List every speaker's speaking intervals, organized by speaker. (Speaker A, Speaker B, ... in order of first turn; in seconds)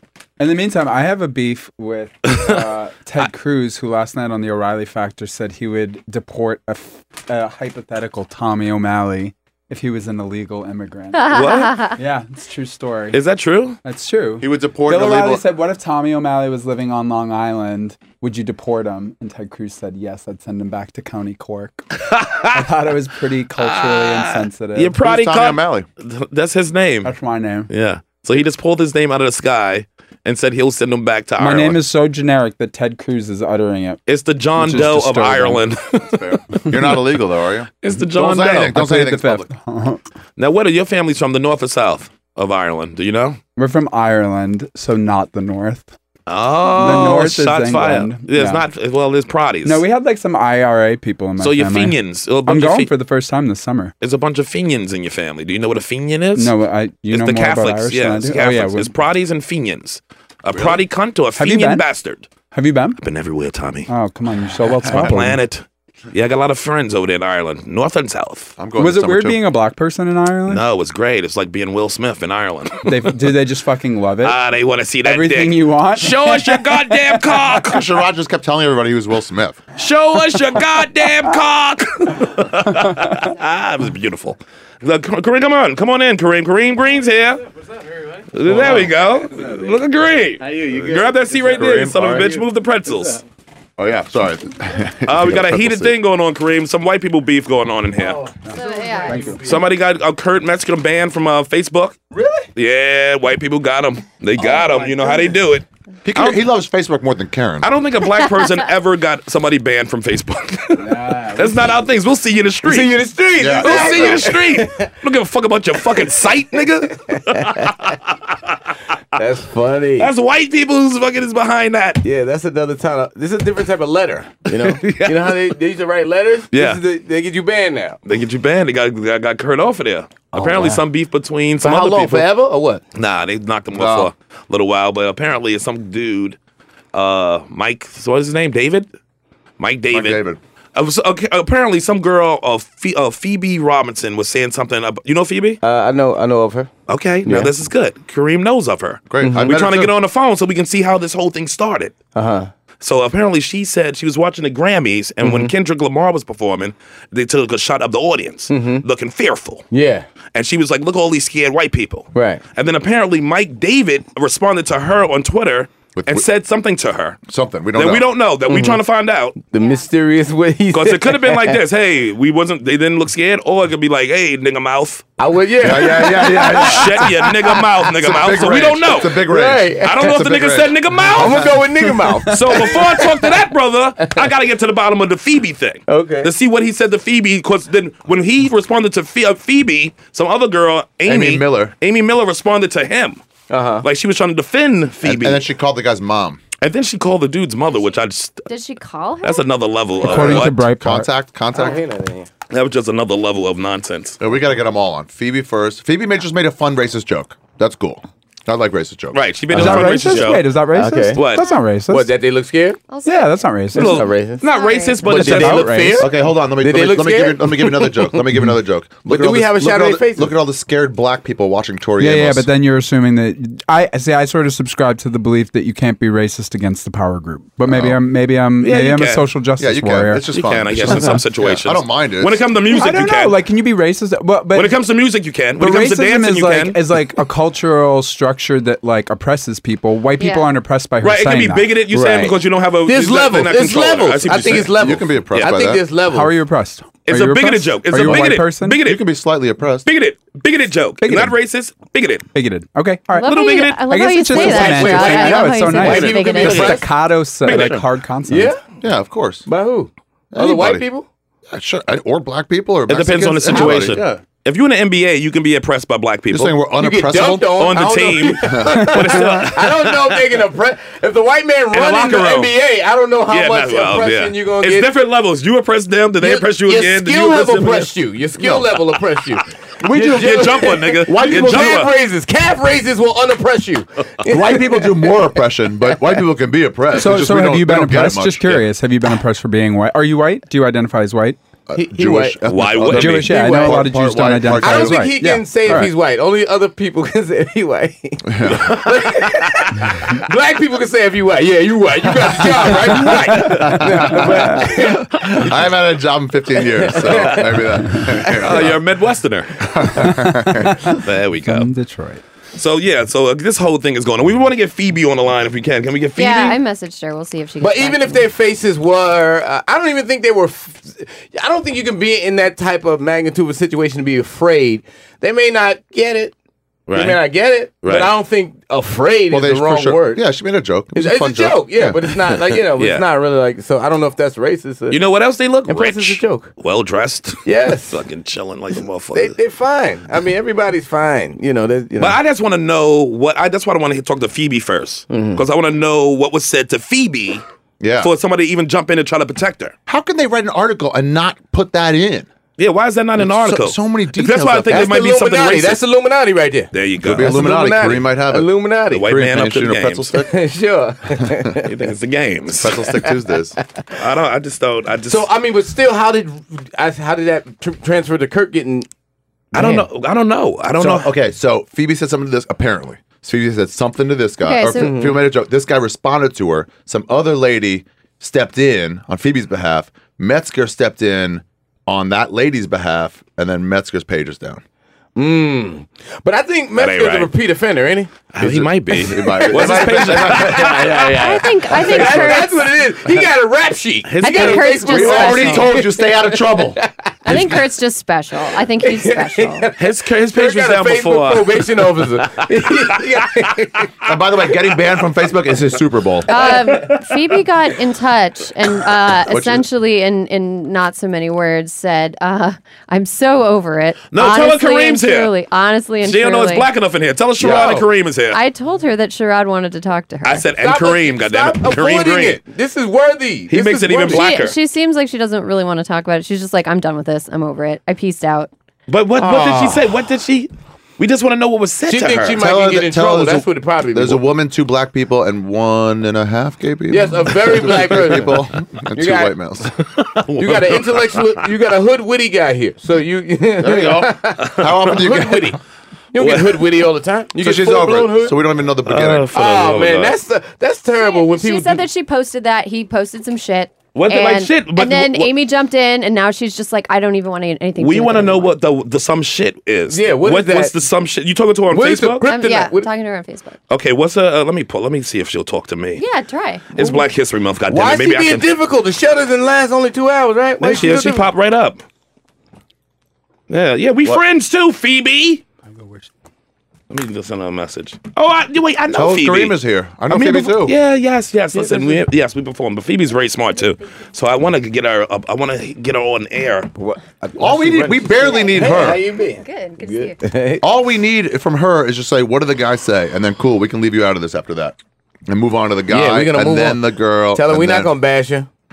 Speaker A: 0.4-13.2, 13.8-22.0, 22.5-25.0, 27.0-27.7, 31.4-34.0, 34.6-35.6, 38.7-40.0, 43.6-45.9, 46.7-48.6, 49.6-53.9, 56.4-58.9, 61.4-61.9, 62.5-63.0, 63.9-65.4, 68.8-70.6, 72.9-74.4, 75.0-77.5, 98.5-99.5, 110.8-111.8, 200.0-201.1, 209.5-212.2, 213.1-214.1, 215.0-216.1, 222.0-230.2, 232.7-234.8, 235.6-241.8, 246.1-248.8, 251.0-251.4, 252.3-258.6, 286.9-291.4, 292.9-295.9, 303.4-303.7, 304.3-304.6, 309.9-312.2
Speaker B: 11.1-12.0, 98.5-99.3, 169.6-169.9, 198.5-200.3, 212.9-213.4, 214.4-215.0, 240.2-240.5, 253.1-256.8, 316.2-318.2, 374.4-374.9, 391.1-392.7, 394.2-395.7, 397.2-399.7, 406.3-416.7, 418.3-420.5, 424.1-428.5, 451.0-458.5, 462.2-463.6, 466.0-466.7, 488.2-488.9, 489.4-490.2
Speaker C: 11.3-11.8, 13.1-13.8, 22.1-22.7, 23.6-27.1, 27.7-31.8, 34.1-36.6, 37.8-38.8, 40.4-43.4, 46.3-49.8, 51.4-52.9, 54.0-56.5, 57.1-62.3, 63.0-63.9, 64.8-68.5, 70.5-73.1, 74.2-77.8, 79.8-87.4, 88.3-93.2, 95.1-98.2, 99.4-102.0, 102.6-106.4, 107.6-112.9, 113.5-118.5, 120.0-122.0, 124.5-125.6, 126.5-126.8, 128.1-132.3, 132.9-136.4, 136.9-138.9, 139.6-140.2, 140.8-145.6, 146.9-152.0, 152.8-159.6, 160.3-167.2, 167.7-169.4, 170.7-175.1, 176.4-179.3, 179.8-181.6, 182.2-193.2, 193.8-195.4, 196.6-198.5, 199.2-200.6, 202.5-204.2, 209.1-210.5, 211.2-211.5, 213.7-215.8, 228.6-229.2, 230.3-233.4, 234.5-236.9, 241.0-245.6, 247.1-249.0, 249.8-252.3, 253.2-253.8, 256.4-256.8, 257.4-257.8, 262.9-266.6, 267.4-270.3, 271.7-272.6, 273.3-277.9, 279.9-281.9, 292.4-293.3, 298.5-299.2, 307.0-307.4, 308.4-309.7, 310.9-311.7, 312.6-316.6, 326.9-327.2, 327.8-328.1, 332.8-333.1, 334.9-339.4, 342.0-347.4, 348.0-349.7, 352.6-355.8, 356.7-357.4, 358.9-360.1, 361.6-362.9, 364.0-365.3, 369.5-371.1, 386.8-387.3, 388.3-392.4, 394.1-395.4, 399.8-402.5, 414.1-415.3, 416.0-418.4, 420.2-422.4, 423.5-424.6, 428.9-432.4, 439.9-441.4, 444.5-444.9, 446.2-446.6, 448.9-450.2, 453.9-455.3, 457.8-462.3, 463.7-466.0, 466.8-468.5, 470.6-471.8, 473.5-475.4, 476.9-486.7
Speaker D: 14.4-15.4, 25.0-25.9, 36.1-39.5, 60.5-60.8, 64.8-65.2, 68.6-69.5, 77.6-79.6, 91.5-92.3, 93.8-96.0, 106.0-107.7, 113.4-114.3, 133.7-134.1, 139.9-140.4, 149.1-149.9, 166.0-166.2, 167.3-168.1, 175.6-177.1, 178.0-180.8, 191.1-191.7, 195.0-196.4, 200.1-201.8, 204.2-210.3, 216.0-222.5, 227.7-228.0, 229.6-232.5, 244.6-245.8, 248.0-249.9, 258.8-259.5, 260.3-260.9, 261.5-264.1, 266.3-267.7, 268.4-269.4, 279.8-281.9, 284.3-288.7, 291.7-295.1, 298.2-298.8, 303.4-308.8, 309.7-310.8, 329.3-332.0, 347.8-348.1, 349.9-352.3, 353.2-354.9, 357.0-360.3, 362.6-363.6, 369.5-369.9, 370.8-384.6, 388.9-391.1, 394.9-396.8, 404.1-406.3, 409.3-409.7, 417.4-417.8, 432.4-439.7, 443.6-445.6, 447.4-449.3, 478.9-480.8, 487.4-489.0, 490.6-497.9
Speaker E: 88.5-88.9, 90.4-92.3, 98.0-99.6, 102.1-102.5, 104.4-105.2, 112.6-114.9, 116.9-117.7, 119.1-120.1, 122.0-128.0, 130.3-130.8, 131.6-132.8, 145.6-146.7, 147.2-147.5, 149.2-149.5, 152.2-152.5, 155.2-155.5, 158.5-158.8, 159.7-160.1, 162.1-162.4, 168.5-168.8, 169.5-171.6, 175.2-177.7, 179.2-180.1, 181.0-183.3, 184.0-184.3, 185.9-186.3, 193.5-193.9, 201.5-202.3, 210.7-211.2, 211.9-212.8, 213.7-214.4, 215.0-218.2, 219.1-220.4, 241.9-246.4, 254.3-256.9, 257.5-258.6, 259.5-261.1, 263.5-264.2, 266.8-274.9, 276.2-285.3, 291.8-292.5, 293.2-293.9, 294.5-305.5, 306.6-307.6, 317.6-326.4, 326.9-330.2, 330.9-335.0, 335.7-336.5, 337.4-338.0, 339.1-342.2, 345.1-345.4, 354.7-359.1, 360.2-361.7, 365.1-368.9, 374.7-375.2, 385.2-397.5, 398.8-403.9, 406.3-406.9, 417.4-417.9, 420.5-424.3, 429.2-429.9, 431.9-434.2, 436.9-438.4, 438.9-439.3, 440.4-445.6, 446.1-448.4, 449.3-451.9, 459.9-460.8, 461.7-462.9, 467.7-471.3, 481.5-482.1, 486.8-490.6, 495.9-498.5